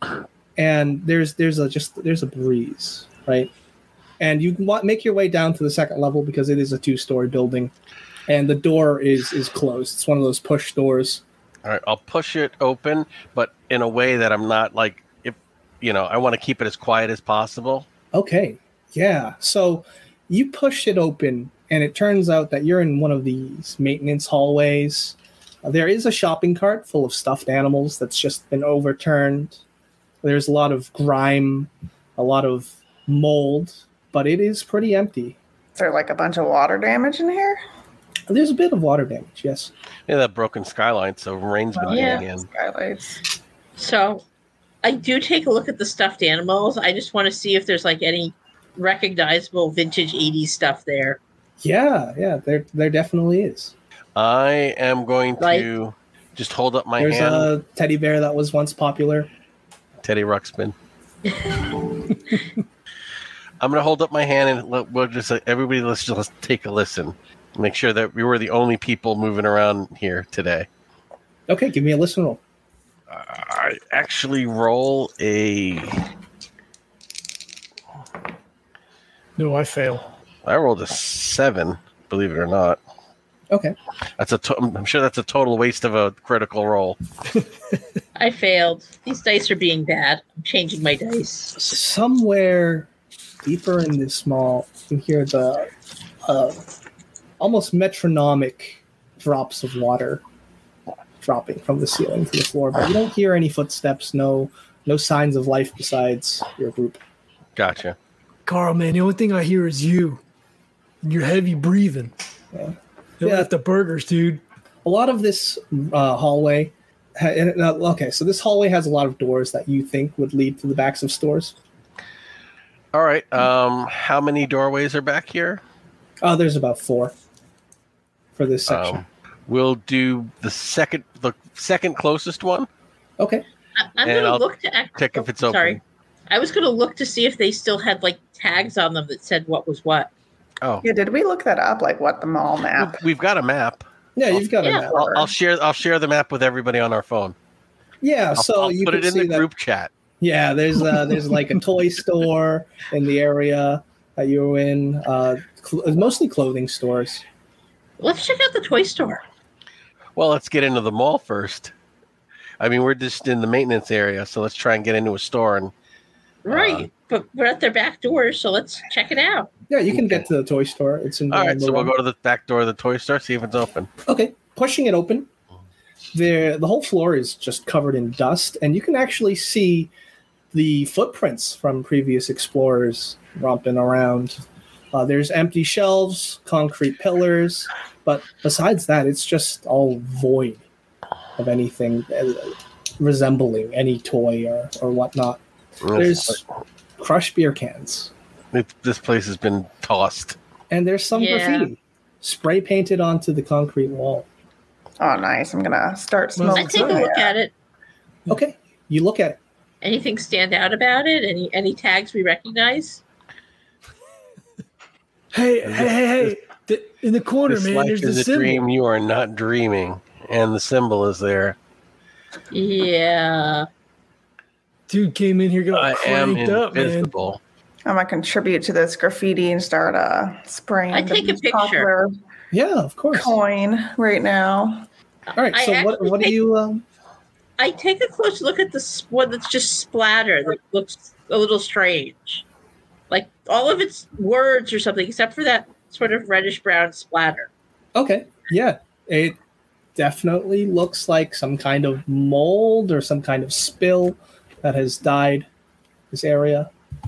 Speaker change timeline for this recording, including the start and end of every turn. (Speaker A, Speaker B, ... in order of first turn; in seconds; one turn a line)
Speaker A: 0.6-3.5
Speaker A: 4.2-7.7
Speaker A: 8.3-11.2
Speaker B: 11.6-17.9
Speaker A: 18.1-29.6
Speaker A: 30.2-35.4
Speaker C: 35.8-37.6
Speaker A: 38.3-39.7
Speaker B: 40.1-42.5
Speaker C: 41.9-43.2
Speaker D: 41.9-42.2
Speaker D: 43.8-44.2
Speaker D: 44.8-51.2
Speaker A: 51.6-53.7
Speaker B: 54.1-57.5
Speaker D: 55.4-55.7
Speaker A: 57.0-59.3
Speaker B: 60.0-60.7
Speaker B: 63.6-70.7
Speaker A: 71.5-72.4
Speaker B: 73.1-76.0
Speaker E: 79.4-80.0
Speaker B: 80.4-82.8
Speaker A: 83.5-83.8
Speaker B: 84.2-87.0
Speaker D: 88.2-91.5
Speaker A: 91.5-92.9
Speaker A: 93.4-95.7
Speaker A: 96.2-96.6
Speaker A: 97.4-100.2
Speaker A: 101.2-107.0
Speaker B: 107.5-108.0
Speaker E: 108.5-110.2
Speaker E: 111.0-112.1
Speaker A: 112.5-113.5
Speaker E: 113.2-114.4
Speaker A: 114.8-121.5
Speaker B: 122.9-125.6
Speaker A: 126.2-127.1
Speaker A: 128.3-129.0
Speaker B: 128.7-132.7
Speaker A: 133.2-133.4
Speaker D: 133.8-140.1
Speaker B: 134.0-134.4
Speaker B: 134.9-135.8
Speaker C: 140.8-143.0
Speaker B: 142.8-143.8
Speaker A: 144.2-145.1
Speaker C: 144.9-145.3
Speaker B: 144.9-147.3
Speaker A: 148.0-149.4
Speaker B: 148.4-149.9
Speaker A: 150.2-157.2
Speaker D: 158.0-159.2
Speaker B: 160.2-161.7
Speaker B: 162.6-165.7
Speaker D: 166.4-169.5
Speaker B: 166.5-166.9
Speaker A: 169.7-171.9
Speaker B: 171.3-173.9
Speaker A: 174.1-175.3
Speaker A: 176.1-179.9
Speaker A: 180.5-184.4
Speaker A: 184.9-190.6
Speaker A: 191.4-195.4
Speaker B: 195.8-196.4
Speaker A: 195.9-196.4
Speaker A: 197.0-198.1
Speaker B: 198.5-200.3
Speaker A: 200.7-204.2
Speaker D: 201.1-201.7
Speaker C: 205.0-207.3
Speaker E: 206.3-207.1
Speaker D: 206.5-207.5
Speaker A: 208.3-209.4
Speaker D: 209.8-213.0
Speaker E: 215.3-218.6
Speaker B: 215.6-216.3
Speaker B: 217.5-221.6
Speaker D: 222.5-223.7
Speaker E: 224.9-227.1
Speaker B: 225.7-227.4
Speaker C: 227.8-232.1
Speaker D: 230.9-231.9
Speaker A: 232.5-233.4
Speaker C: 233.1-234.8
Speaker D: 235.3-236.4
Speaker A: 235.3-236.8
Speaker D: 237.6-242.4
Speaker D: 243.1-247.5
Speaker A: 247.9-249.4
Speaker A: 249.9-255.5
Speaker A: 256.1-256.7